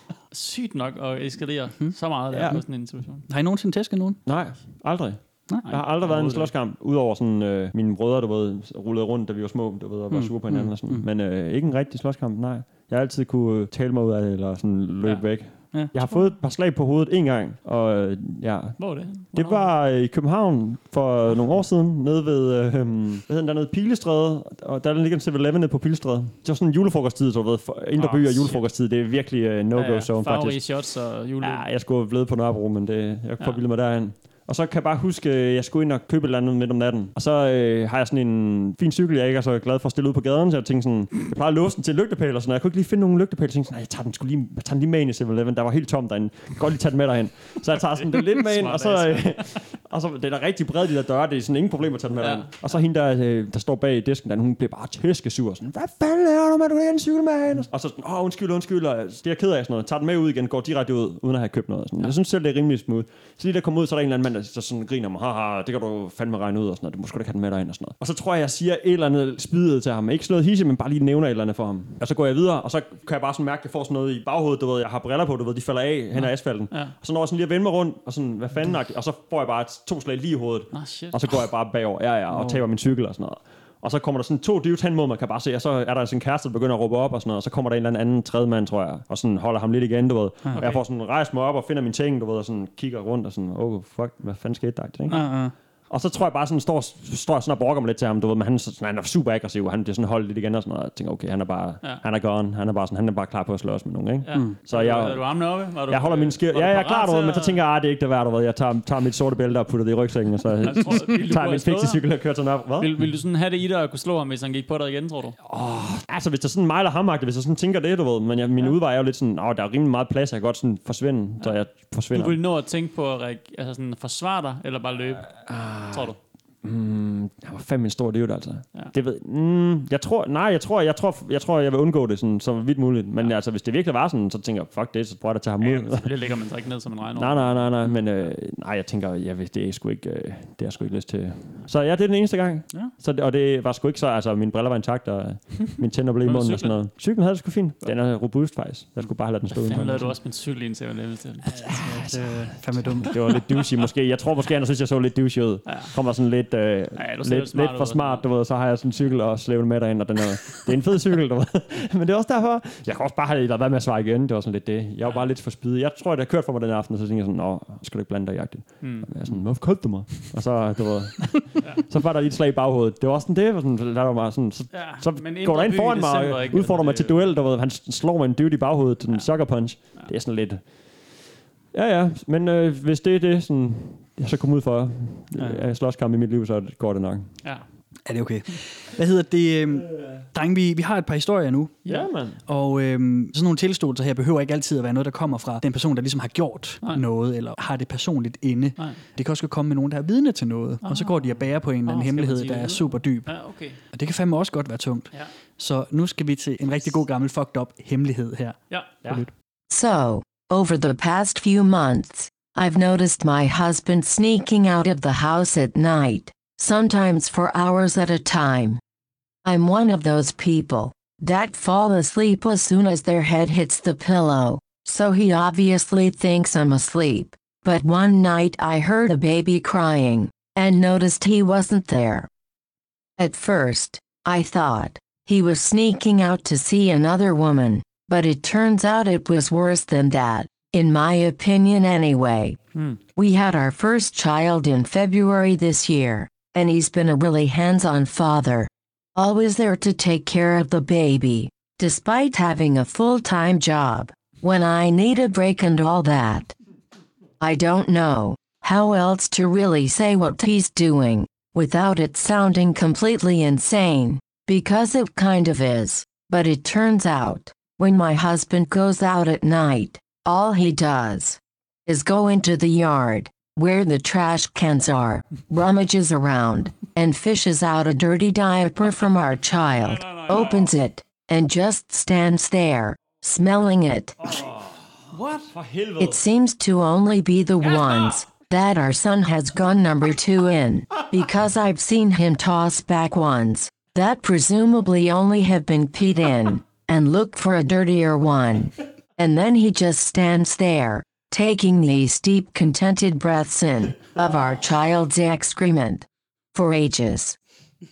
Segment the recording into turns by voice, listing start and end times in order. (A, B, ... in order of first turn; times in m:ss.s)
0:00.3-0:03.2 A
0:02.3-0:02.6 B
0:03.3-0:04.2 C
0:04.2-0:30.7 B
0:05.6-0:06.5 A
0:10.1-0:11.0 C
0:15.7-0:16.0 C
0:18.8-0:19.7 A
0:27.9-0:28.6 A
0:29.7-0:31.6 A
0:31.4-1:35.3 B
0:48.0-0:49.7 A
0:52.2-0:52.8 A
1:16.2-1:16.9 A
1:20.7-1:21.2 A
1:22.3-1:22.6 C
1:30.5-1:30.8 A
1:35.1-1:35.3 A
1:35.1-1:35.5 C
1:35.9-1:52.9 B
1:44.2-1:47.6 A
1:50.6-1:52.1 A
1:52.8-1:55.4 A
1:55.4-2:02.4 B
2:02.1-2:06.2 A
2:05.3-2:16.1 B
2:15.6-2:18.3 A
2:17.2-2:30.2 B
2:26.2-2:26.8 A
2:29.5-2:32.0 A
2:31.5-2:33.2 C
2:31.7-3:01.1 B
2:35.6-2:35.9 A
2:37.0-2:38.2 A
2:48.8-2:49.2 A
2:54.7-2:57.3 A
3:01.7-3:07.4 B
3:08.1-3:11.9 C
3:11.9-3:12.4 B
3:12.4-3:23.4 C
3:20.8-3:23.8 A
3:23.9-3:29.3 C
3:28.7-3:29.0 A
3:29.7-3:38.8 D
3:39.4-3:52.3 D
3:53.2-4:02.6 D
4:03.2-4:16.5 D
4:17.4-4:44.2 D
4:39.9-4:40.7 A
4:44.2-4:46.2 B
4:45.1-4:45.5 A
4:46.0-5:07.4 D